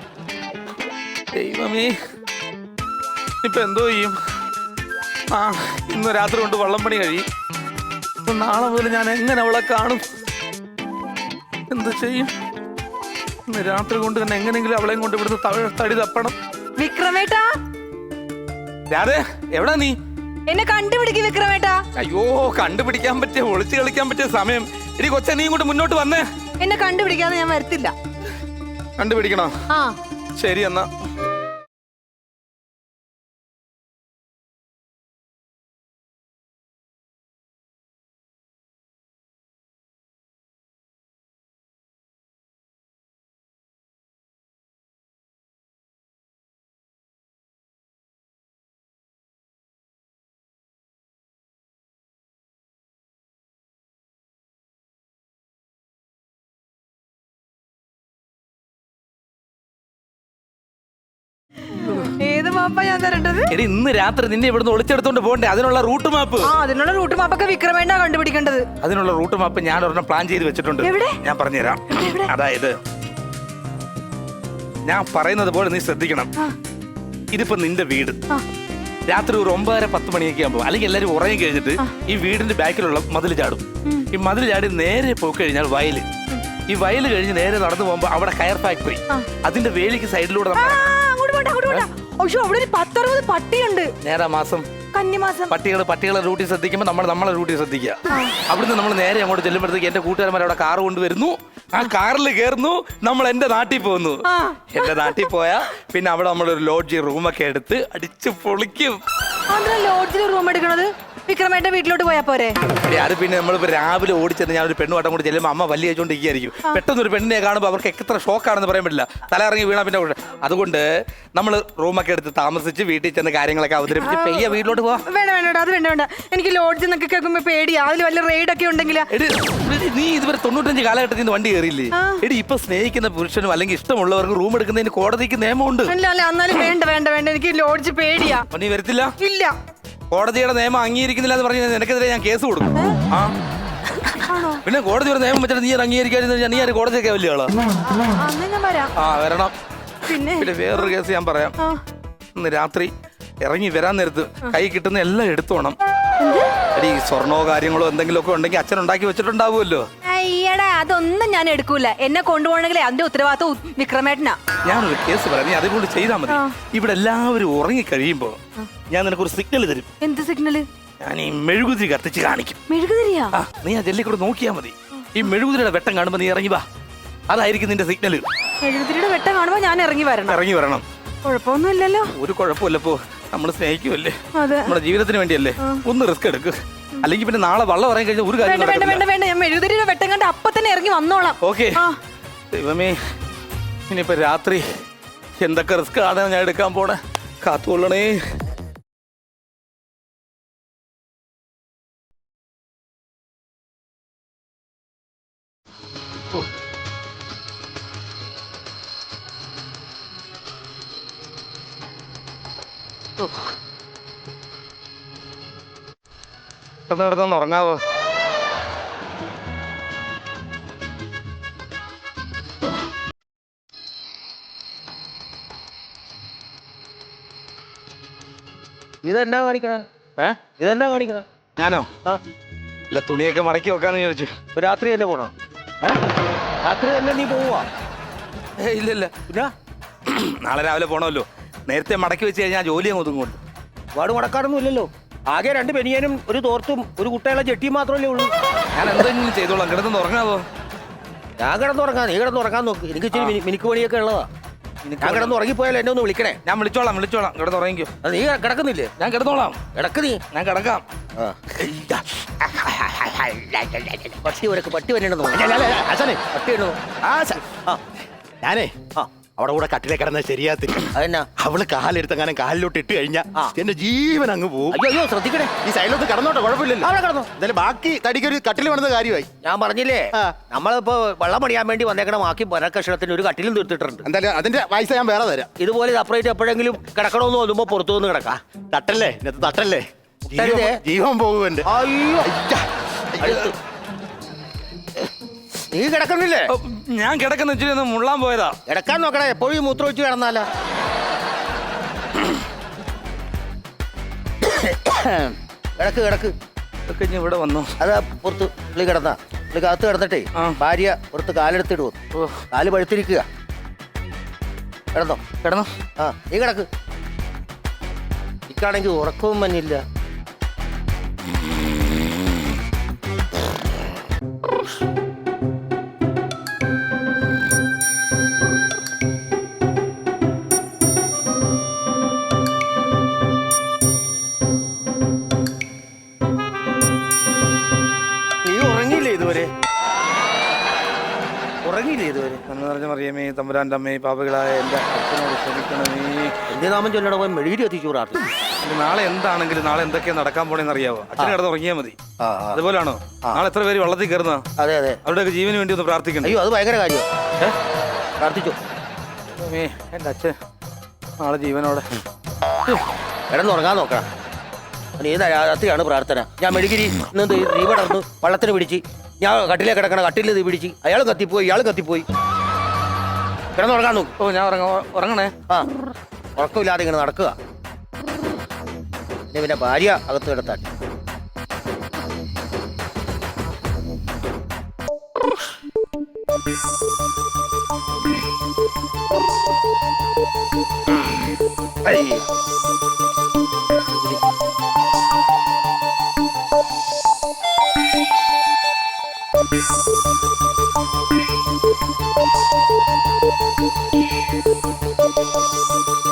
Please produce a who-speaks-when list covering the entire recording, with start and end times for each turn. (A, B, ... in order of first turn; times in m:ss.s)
0:01.3-0:01.9 A
0:03.4-0:04.2 A
0:05.3-0:07.2 A
0:08.2-0:10.0 A
0:11.7-0:12.3 A
0:13.5-0:16.4 A
0:16.8-0:17.5 B
0:18.9-0:19.9 A
0:20.5-0:21.8 B
0:22.0-0:26.2 A
0:26.6-0:27.9 B
0:29.0-0:29.5 A
0:29.7-0:30.0 B
0:30.4-0:30.9 A
1:01.8-1:03.5 B
1:03.5-1:06.5 A
1:06.4-1:08.6 B
1:08.8-1:12.8 A
1:10.8-1:11.2 B
1:11.9-1:12.3 B
1:14.9-1:16.3 A
1:17.3-1:18.2 A
1:19.1-1:26.1 A
1:26.7-1:30.9 A
1:30.5-1:33.9 B
1:34.0-1:34.7 A
1:34.9-1:35.5 B
1:35.5-1:49.0 A
1:38.1-1:38.4 B
1:44.2-1:45.1 B
1:49.5-1:52.6 B
1:52.8-2:00.8 A
2:01.3-2:05.0 A
2:04.0-2:09.1 B
2:09.1-2:15.9 A
2:11.9-2:12.2 B
2:15.8-2:18.4 B
2:18.5-2:19.1 A
2:19.2-2:19.5 B
2:20.1-2:23.3 A
2:24.1-2:24.6 B
2:24.6-2:27.6 A
2:27.9-2:28.9 B
2:29.0-2:29.5 A
2:30.0-2:30.8 B
2:30.2-2:31.6 A
2:32.4-2:32.9 A
2:33.4-2:35.8 A
2:36.2-2:36.5 B
2:36.7-2:39.9 A
2:40.0-2:44.4 B
2:44.6-2:48.4 A
2:46.3-2:46.6 B
2:48.9-2:49.9 A
2:50.0-2:50.6 B
2:51.0-2:52.6 A
2:52.7-2:53.3 B
2:53.3-2:56.6 A
2:57.3-2:58.2 A
2:58.6-3:00.4 B
3:00.3-3:00.8 A
3:01.2-3:02.1 B
3:02.1-3:09.0 A
3:04.3-3:04.8 B
3:08.4-3:12.0 B
3:11.4-3:11.8 A
3:12.5-3:13.0 A
3:13.9-3:14.6 A
3:15.4-3:18.2 A
3:36.9-3:37.8 A
3:49.0-3:49.8 C
3:50.6-3:51.2 C
3:51.6-3:51.9 A
3:52.9-3:54.3 A
3:54.5-3:55.3 C
3:56.6-3:57.7 C
3:58.6-3:59.1 A
3:59.3-3:59.5 C
4:00.0-4:03.4 A
4:03.9-4:08.3 C
4:08.7-4:10.4 A
4:11.4-4:14.3 C
4:14.8-4:15.3 A
4:15.0-4:16.4 C
4:16.4-4:17.9 A
4:18.0-4:18.9 C
4:19.0-4:19.6 A
4:19.7-4:20.2 C
4:20.3-4:20.8 A
4:22.4-4:25.8 C
4:25.3-4:26.2 D
4:26.3-4:26.8 C
4:27.0-4:27.4 D
4:28.4-4:28.7 D
4:29.4-4:34.8 D
4:30.9-4:31.3 C
4:34.7-4:35.5 C
4:35.6-4:39.3 D
4:36.8-4:37.3 C
4:39.4-4:44.0 C
4:44.0-4:45.5 D
4:45.6-4:48.4 C
4:48.7-4:51.7 D
4:50.2-4:50.8 C
4:51.6-4:52.3 C
4:52.2-4:53.5 D
4:53.2-4:53.6 C
4:55.7-4:56.5 C
4:56.5-4:58.6 A
4:58.7-5:00.5 C
5:04.4-5:06.3 C
5:06.9-5:07.7 A
5:07.8-5:12.0 C
5:12.5-5:13.2 C
5:14.9-5:15.2 C
5:15.4-5:15.7 A
5:16.0-5:16.7 C
5:18.5-5:19.8 C
5:38.4-5:39.5 C
5:41.6-5:42.4 C
5:42.5-5:46.3 A
5:46.5-5:48.2 C
5:48.6-5:52.0 A
5:52.2-5:52.6 C
5:52.5-5:54.4 A
5:54.6-5:55.0 C
5:55.0-5:56.4 A
5:56.2-5:57.1 C
5:58.2-5:58.6 C
5:59.3-6:00.4 A
6:01.2-6:01.9 A
6:03.3-6:04.1 C
6:05.0-6:12.0 C
6:13.6-6:14.1 C
6:14.2-6:15.3 A
6:16.4-6:17.3 C
6:19.3-6:20.6 C
6:31.8-6:32.2 A